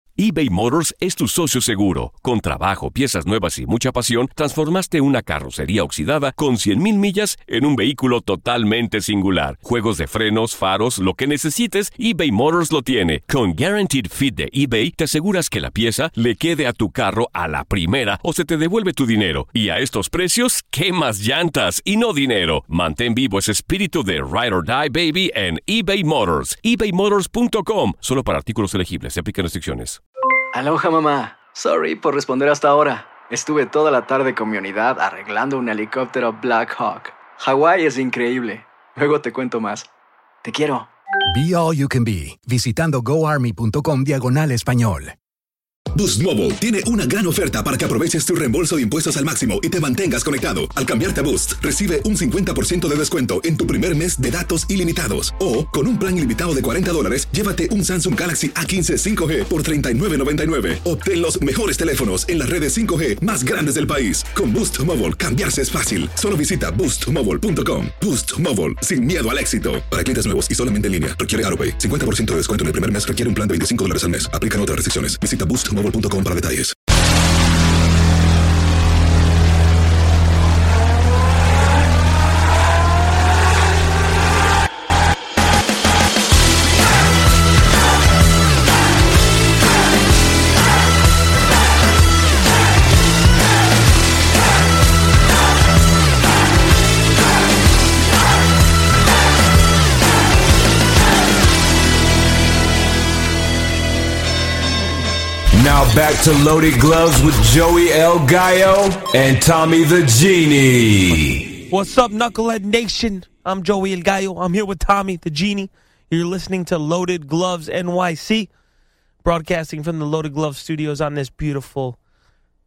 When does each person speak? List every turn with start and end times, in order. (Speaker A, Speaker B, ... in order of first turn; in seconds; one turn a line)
Speaker A: 0.2-30.0
Speaker B: 30.5-39.9
Speaker B: 40.4-40.9
Speaker C: 41.3-45.1
Speaker D: 45.9-76.8
Speaker E: 105.5-111.5
Speaker F: 111.7-118.5
Speaker F: 119.2-122.0